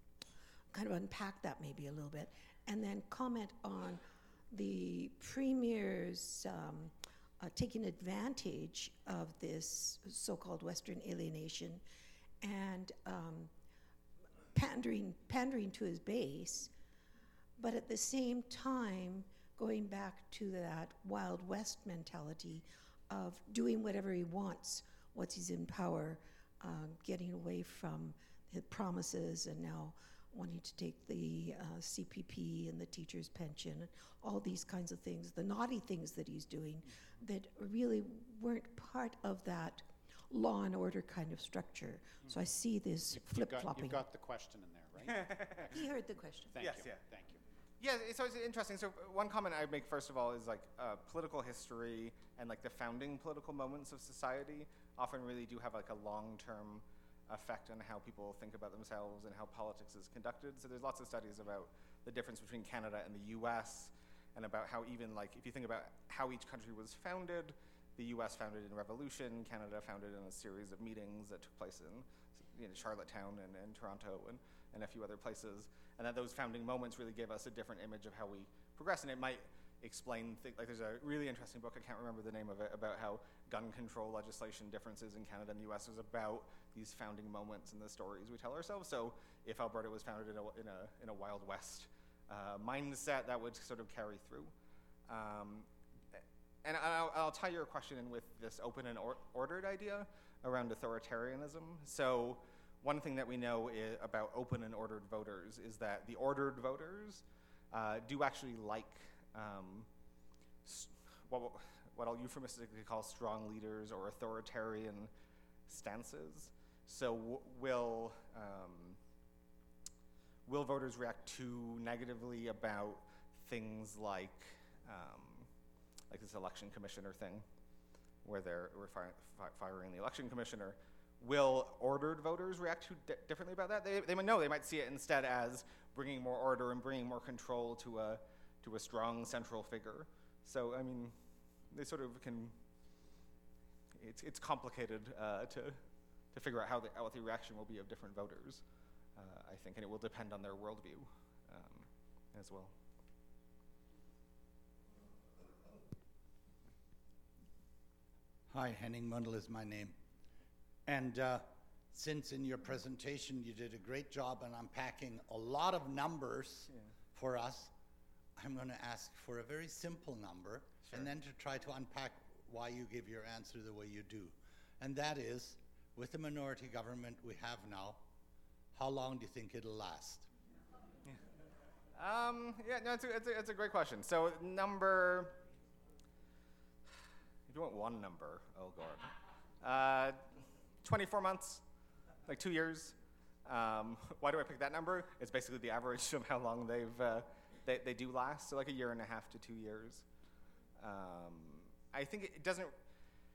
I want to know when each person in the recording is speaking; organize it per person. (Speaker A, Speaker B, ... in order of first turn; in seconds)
Speaker A: 0.7-11.8, 12.4-13.5, 14.5-16.7, 17.6-44.0, 45.7-46.6
Speaker B: 43.1-45.9, 46.5-47.4
Speaker C: 45.2-45.5, 46.6-47.0, 47.8-94.5, 95.1-109.9, 110.6-115.1, 115.7-119.0, 120.5-125.5, 126.1-127.4, 128.2-141.2, 141.7-142.5, 143.9-145.8, 146.3-148.6, 149.2-152.7, 181.9-185.4, 187.5-191.6, 192.2-200.0, 200.8-202.7
Speaker D: 158.5-159.9, 160.8-167.7, 168.3-178.0, 178.7-180.3